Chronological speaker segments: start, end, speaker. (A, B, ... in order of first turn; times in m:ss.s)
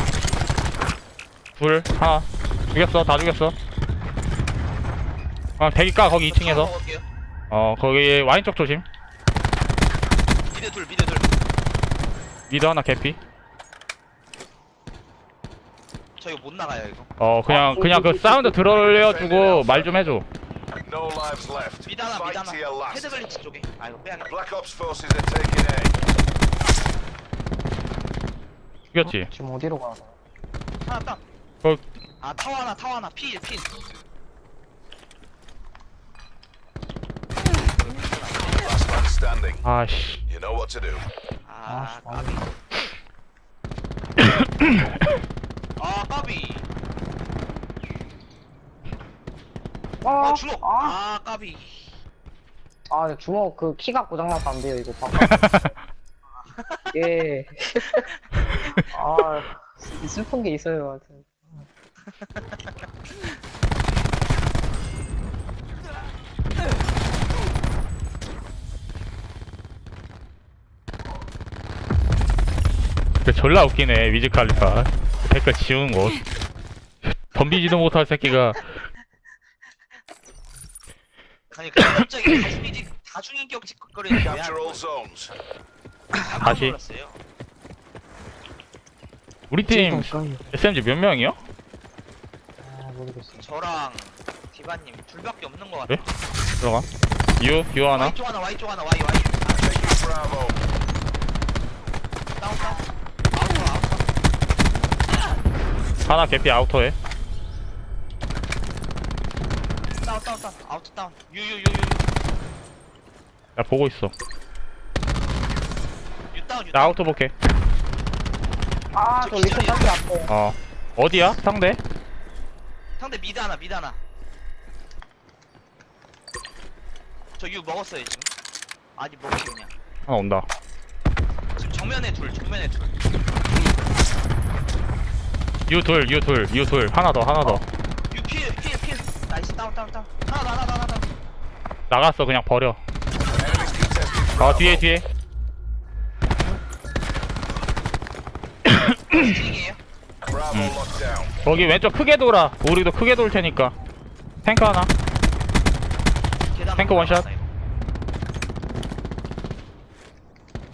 0:01.6-0:03.6 A
0:05.6-0:06.7 A
0:06.2-0:07.0 B
0:07.5-0:08.8 A
0:10.5-0:11.3 B
0:12.5-0:13.2 A
0:16.2-0:17.1 B
0:17.2-0:20.2 A
0:17.5-0:18.6 C
0:18.6-0:20.0 D
0:20.8-0:23.3 D
0:21.8-0:24.3 B
0:24.3-0:26.0 D
0:28.9-0:29.3 A
0:29.0-0:30.2 C
0:30.9-0:31.2 B
0:32.2-0:33.7 B
0:37.7-0:38.6 B
0:38.6-0:39.6 D
0:39.6-0:40.2 A
0:40.3-0:41.1 D
0:41.4-0:42.5 B
0:41.7-0:42.4 C
0:44.2-0:44.7 A
0:45.8-0:46.7 B
0:50.0-0:51.0 C
0:50.2-0:51.8 B
0:52.9-0:55.7 C
0:55.2-0:55.7 A
0:56.4-0:57.1 B
0:56.9-0:58.0 C
0:58.9-1:01.6 C
1:02.1-1:02.7 B
1:13.2-1:16.2 A
1:17.1-1:18.7 A
1:21.5-1:24.8 B
1:24.2-1:25.3 D
1:26.2-1:27.2 B
1:26.4-1:26.8 A
1:29.5-1:31.4 A
1:29.6-1:30.5 C
1:32.6-1:33.5 C
1:33.4-1:36.0 B
1:36.6-1:36.9 A
1:37.4-1:38.2 A
1:37.9-1:39.7 B
1:39.6-1:40.6 D
1:42.4-1:44.1 B
1:46.1-1:47.0 A
1:50.0-1:52.0 B
1:53.6-1:54.1 A
1:56.3-1:57.1 B
1:56.7-1:57.3 A
1:58.9-2:00.3 C
1:59.2-1:59.9 B
2:00.3-2:01.8 A
2:03.0-2:04.0 B
2:07.4-2:08.3 B
2:09.0-2:09.8 B
2:10.1-2:10.5 A
2:11.6-2:13.0 B
2:15.7-2:17.6 A
2:18.1-2:21.1 B
2:21.9-2:22.8 A
2:23.3-2:24.9 D
2:24.4-2:25.0 A
2:28.7-2:29.3 A
2:29.1-2:29.8 B
2:30.3-2:31.4 D
2:30.5-2:30.8 A
2:31.4-2:33.7 A
2:34.4-2:34.9 A
2:36.5-2:37.4 B
2:36.8-2:37.3 A